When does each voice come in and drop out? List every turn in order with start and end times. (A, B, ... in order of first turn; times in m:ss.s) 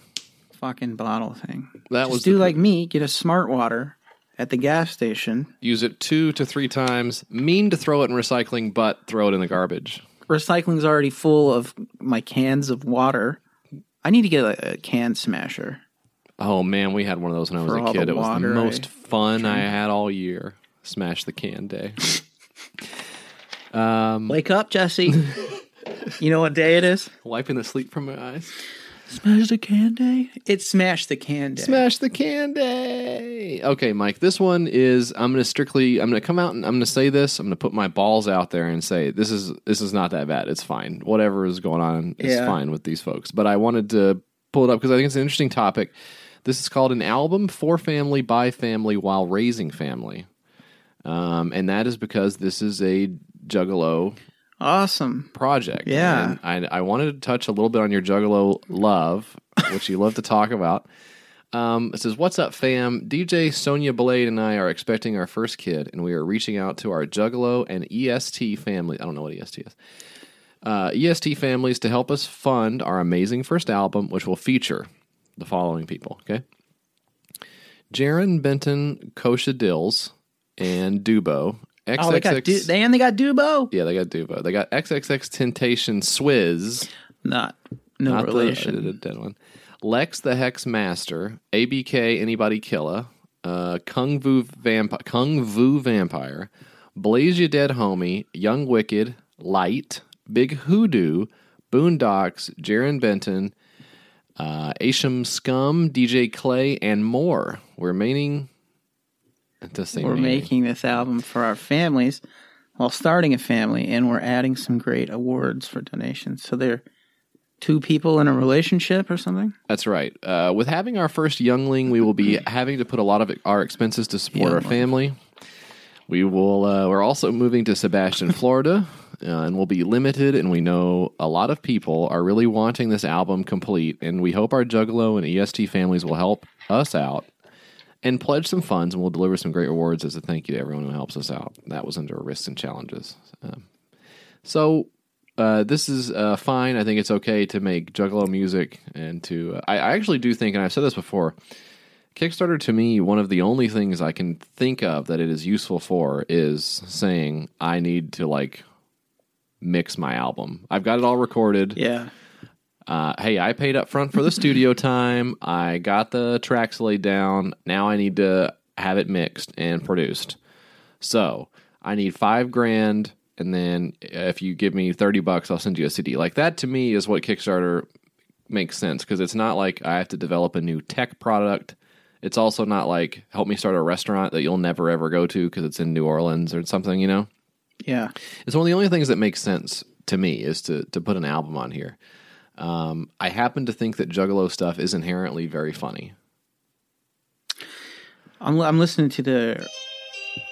0:00.5-0:05.5 A
0:01.9-0:02.6 B
0:05.6-0:10.0 B
0:10.3-0:13.4 A
0:14.0-0:15.8 A
0:16.4-0:22.1 B
0:17.6-0:19.6 A
0:23.7-0:24.4 B
0:24.3-0:25.4 A
0:26.2-0:27.1 A
0:27.2-0:28.5 B
0:29.1-0:31.8 A
0:31.6-0:50.3 B
0:42.2-0:42.6 A
0:51.0-0:54.2 B
0:54.6-0:55.3 A
0:55.3-1:00.9 B
0:55.8-0:56.4 A
1:01.5-1:09.8 B
1:10.6-1:16.4 B
1:17.9-1:22.7 B
1:22.0-1:23.7 A
1:23.7-1:26.9 B
1:27.2-1:28.9 A
1:28.1-1:43.5 B
1:44.4-1:48.5 B
1:49.6-1:50.5 B
1:50.0-1:52.2 A
1:52.8-1:56.8 A
1:57.6-1:59.6 A
1:59.7-2:05.2 B
2:04.3-2:04.8 A
2:06.1-2:17.3 B
2:18.0-2:23.7 B
2:24.4-2:31.4 B
2:32.2-2:38.6 B
2:39.6-2:41.8 B
2:41.8-2:42.1 A
2:42.9-2:50.4 B
2:51.0-2:57.9 B
2:58.5-3:07.3 B
3:07.8-3:08.1 A
3:08.4-3:12.0 B
3:12.6-3:16.2 B
3:18.4-3:19.7 A